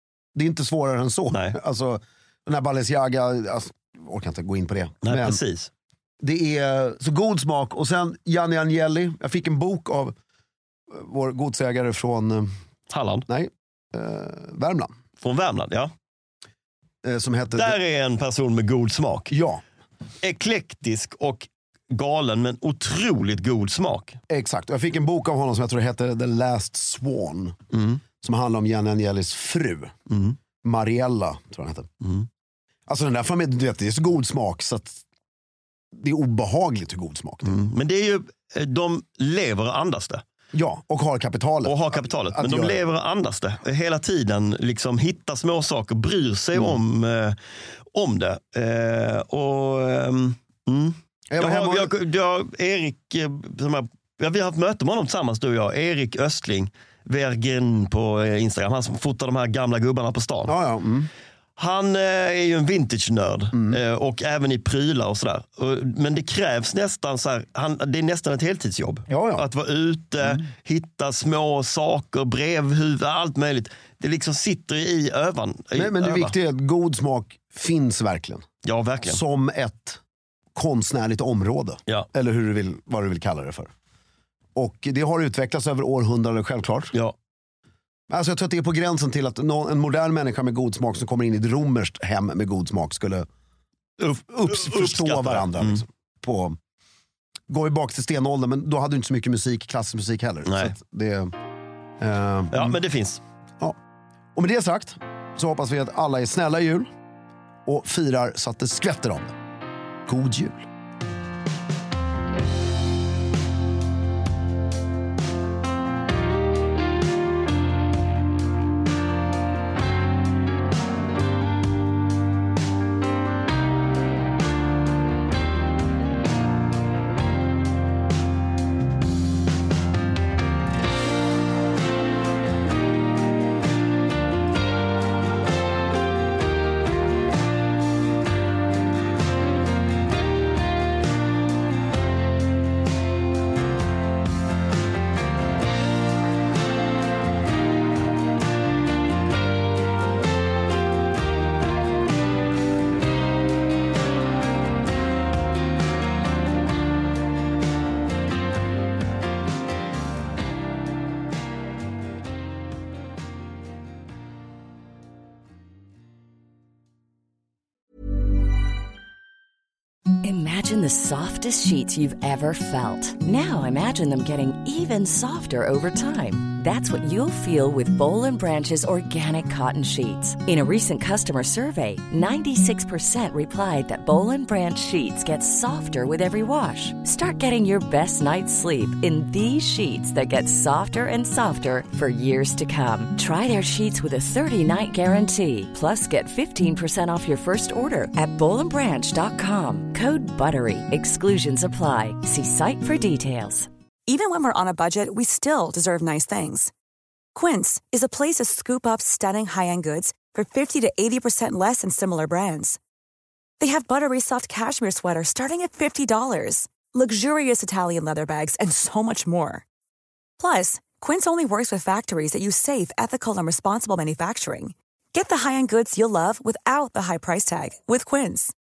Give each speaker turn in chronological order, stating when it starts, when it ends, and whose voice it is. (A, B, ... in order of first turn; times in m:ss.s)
0:00.3-0:05.4 A
0:01.3-0:01.6 B
0:05.0-0:05.7 B
0:06.2-0:10.1 A
0:10.9-0:12.5 A
0:12.9-0:13.3 B
0:13.3-0:14.9 A
0:15.2-0:15.9 B
0:17.0-0:17.8 A
0:17.5-0:19.3 B
0:19.3-0:19.6 A
0:20.2-0:24.2 B
0:24.3-0:27.6 A
0:27.7-0:28.0 B
0:28.2-0:29.9 A
0:30.1-0:30.4 B
0:30.6-0:31.9 A
0:32.0-0:32.3 B
0:32.9-0:35.0 A
0:35.9-0:37.5 A
0:37.4-0:40.2 B
0:40.5-0:42.8 A
0:41.6-1:00.5 B
0:51.3-0:51.9 A
1:00.4-1:01.1 A
1:01.6-1:16.3 B
1:03.5-1:03.8 A
1:09.1-1:09.5 A
1:15.7-1:18.5 A
1:18.6-1:19.2 B
1:19.0-1:20.0 A
1:20.5-1:23.7 A
1:24.5-1:26.9 A
1:28.1-1:33.3 A
1:34.0-1:35.8 B
1:34.1-1:36.6 A
1:37.5-1:41.3 A
1:40.4-1:40.8 B
1:42.0-1:42.8 A
1:42.5-1:43.2 B
1:44.3-1:46.9 A
1:47.6-1:49.3 A
1:50.1-1:50.6 A
2:50.2-3:23.7 C
3:24.1-3:26.7 D
3:27.3-3:32.8 D
3:33.6-3:39.6 D
3:40.4-3:48.5 D